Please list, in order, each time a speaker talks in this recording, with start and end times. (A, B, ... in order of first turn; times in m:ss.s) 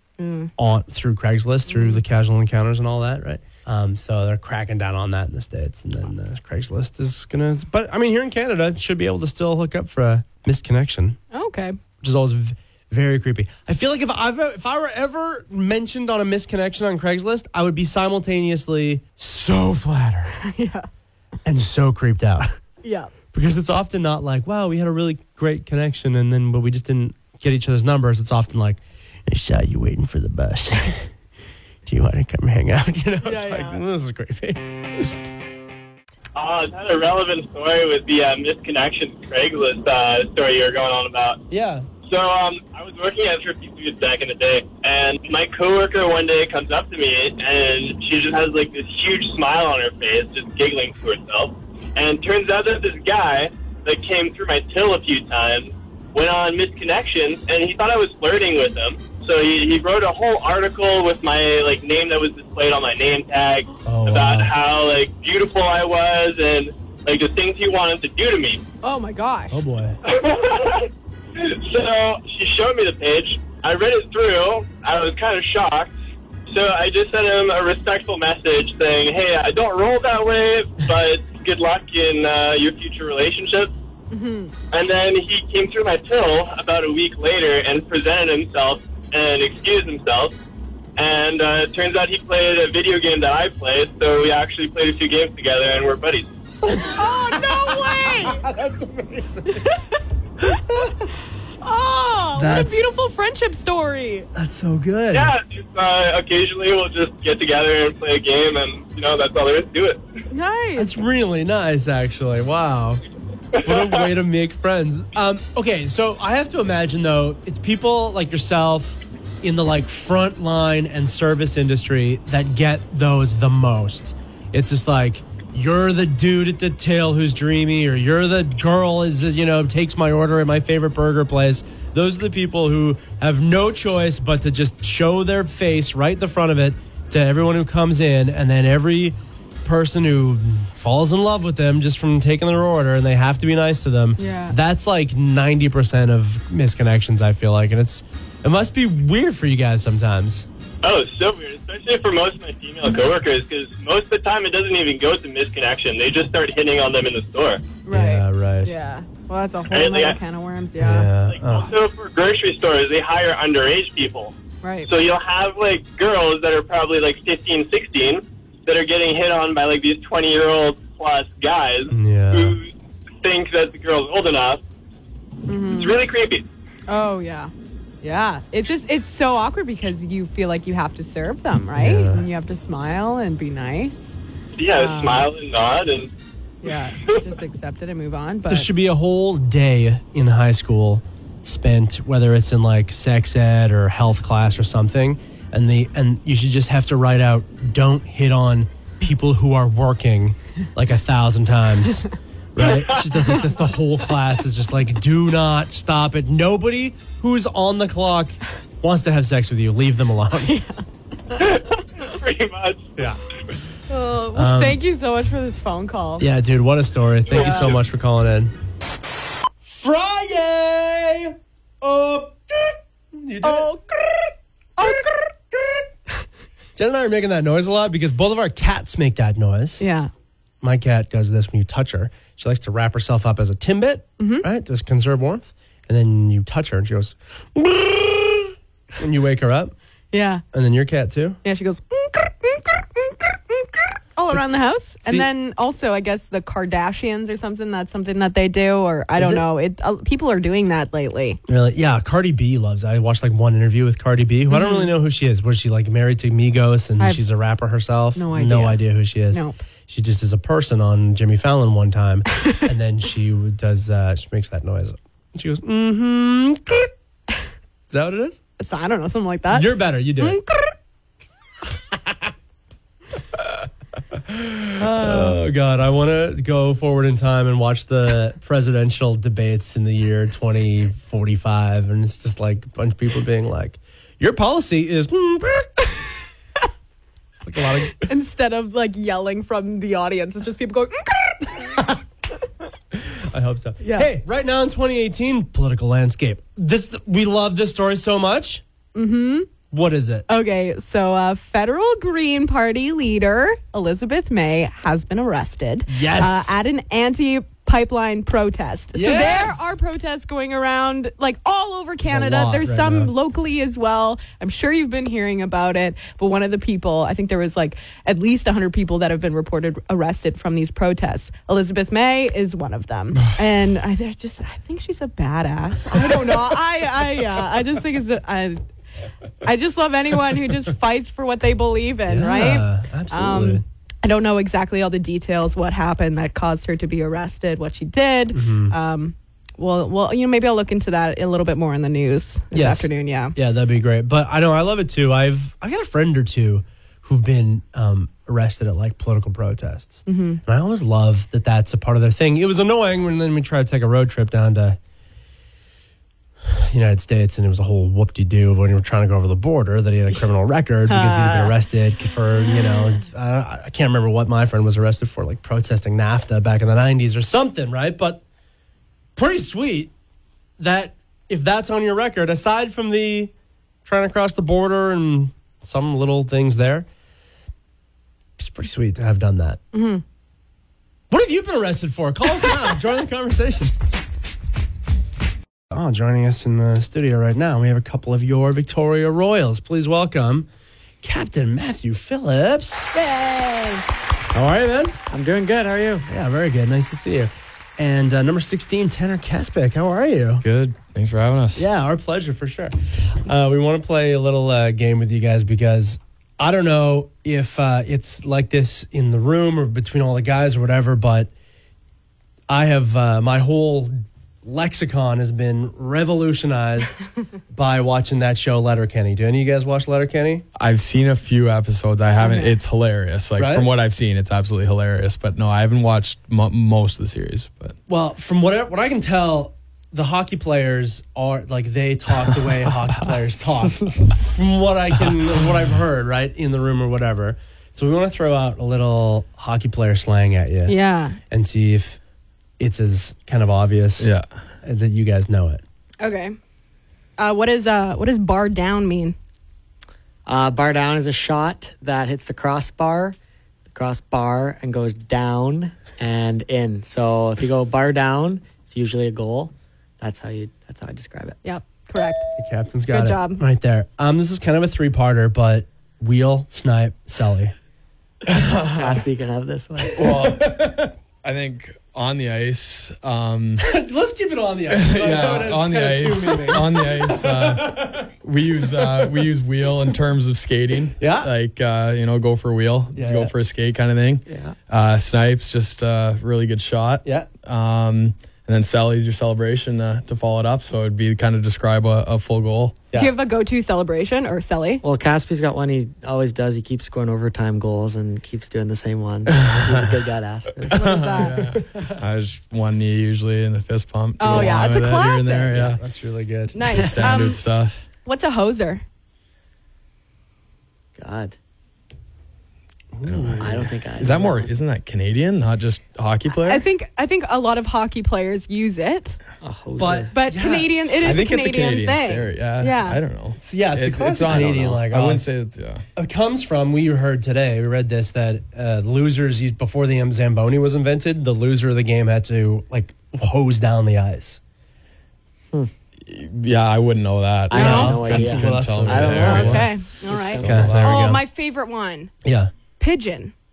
0:00.2-0:00.5 A
0:00.6-0:11.2 B
0:01.7-0:02.0 A
0:11.3-0:11.8 A
0:12.0-0:20.4 B
0:20.4-0:20.9 A
0:21.4-0:22.5 B
0:22.8-0:23.1 A
0:23.3-0:31.1 B
0:31.9-0:35.1 B
0:33.2-0:33.8 A
0:36.4-0:41.4 C
0:41.5-0:41.9 B
0:42.1-1:08.6 C
1:03.8-1:04.5 B
1:08.8-1:09.6 A
1:09.5-1:10.0 B
1:10.0-1:16.0 C
1:16.5-1:23.7 C
1:24.1-1:24.5 A
1:24.7-1:30.4 C
1:31.0-1:36.3 C
1:36.7-1:37.0 B
1:36.9-1:38.4 A
1:37.6-1:39.7 B
1:39.5-1:40.9 A
1:40.4-1:40.9 B
1:41.6-1:44.3 A
1:42.4-1:42.8 B
1:44.4-1:45.3 B
1:45.1-1:50.1 C
1:50.3-1:51.0 A
1:50.8-1:53.0 B
1:53.5-1:54.1 C
1:53.6-2:30.5 B
2:24.2-2:24.6 A
2:30.8-2:37.8 C
2:37.8-2:41.1 A
2:37.9-2:38.7 B
2:39.7-2:40.2 C
2:40.8-2:41.7 B
2:41.2-2:44.3 C
2:44.6-2:44.9 A
2:44.8-2:54.6 C
2:51.9-2:52.6 B
2:55.5-2:56.0 A
2:55.7-2:56.5 C
2:56.9-2:57.5 A
2:58.0-3:04.2 A
3:01.8-3:02.2 B
3:04.6-3:06.1 C
3:04.7-3:05.3 A
3:06.6-3:08.7 A
3:08.5-3:30.6 B
3:22.6-3:23.1 C
3:30.4-3:31.4 A
3:31.4-3:32.9 C
3:33.9-3:36.3 A
3:34.3-3:34.8 B
3:36.2-3:38.5 B
3:37.3-3:37.8 C
3:37.3-3:37.8 A
3:39.7-3:44.3 B
3:43.4-3:43.9 A
3:44.8-3:45.1 A
3:44.8-3:45.9 B
3:46.8-3:49.8 B
3:49.8-3:50.1 A
3:50.6-3:59.7 B
3:54.2-3:54.5 A
4:00.1-4:00.4 A
4:00.5-4:01.4 B
4:01.4-4:11.4 A
4:05.0-4:05.3 B
4:09.2-4:09.5 B
4:11.5-4:26.9 B
4:14.5-4:14.9 A
4:17.0-4:17.2 A
4:18.2-4:19.6 A
4:27.9-4:28.4 B
4:28.6-4:30.8 A
4:29.5-4:30.4 B
4:34.2-4:45.9 B
4:34.8-4:35.4 A
4:47.4-4:48.1 B
4:47.8-4:51.8 A
4:53.0-4:58.6 B
4:53.8-4:54.1 A
4:58.9-4:59.5 A
4:59.7-5:00.3 B
5:00.3-5:28.6 A
5:05.9-5:06.5 B
5:08.9-5:09.6 B
5:12.0-5:13.1 B
5:29.4-5:43.4 A
5:32.1-5:33.6 B
5:38.3-5:38.8 B
5:42.5-5:54.8 B
5:50.1-5:50.4 A
5:56.5-6:08.2 B
6:00.9-6:01.6 A
6:09.2-6:09.9 B
6:10.6-6:13.3 B
6:13.8-6:16.9 B
6:18.4-6:19.6 B
6:19.7-6:20.0 A
6:21.1-6:23.7 B
6:25.7-6:30.5 B
6:31.0-6:32.9 B
6:32.9-6:33.8 A
6:34.3-6:35.0 B
6:35.1-6:36.1 D
6:36.1-6:40.4 B
6:40.4-6:41.7 E
6:41.6-6:51.3 B
6:52.5-7:00.4 B
7:00.6-7:07.8 E
7:02.2-7:02.6 A
7:03.4-7:03.7 B
7:07.9-7:20.8 B
7:20.7-7:21.2 A
7:21.3-7:22.0 B
7:22.6-7:24.1 B
7:24.0-7:24.3 E
7:24.6-7:25.6 B
7:26.0-7:26.4 A
7:27.2-7:29.2 A
7:30.3-7:33.2 D
7:33.7-7:41.4 D
7:41.4-7:42.3 A
7:42.4-7:47.5 B
7:42.9-7:43.4 A
7:48.3-7:49.0 E
7:48.8-7:50.1 D
7:49.9-7:50.9 B
7:49.9-7:53.7 E
7:53.6-7:58.1 B
7:54.7-8:12.9 E
7:58.8-7:59.2 B
8:01.0-8:01.3 B
8:03.0-8:03.3 B
8:04.3-8:04.6 D
8:12.9-8:14.8 A
8:14.8-8:21.4 D
8:19.3-8:20.0 E
8:20.6-8:25.8 E
8:20.7-8:21.5 A
8:24.2-8:25.6 A
8:24.3-8:24.6 B
8:25.8-8:26.7 B
8:26.5-8:27.4 A
8:26.6-8:27.8 E
8:28.0-8:28.8 A
8:31.0-8:31.4 D
8:32.9-8:33.7 B
8:33.1-8:36.7 E
8:33.4-8:34.5 D
8:36.3-8:39.2 A
8:39.4-8:40.2 D
8:39.8-8:40.8 B
8:40.1-8:43.0 A
8:41.0-8:45.8 E
8:43.4-8:45.3 B
8:46.0-8:54.4 B
8:56.1-8:59.7 E
8:57.5-9:00.8 D
8:57.6-8:58.0 A
8:57.6-8:59.7 B
8:59.2-9:02.1 A
9:00.3-9:01.1 E
9:00.4-9:01.2 B
9:02.2-9:02.5 B
9:02.8-9:03.3 A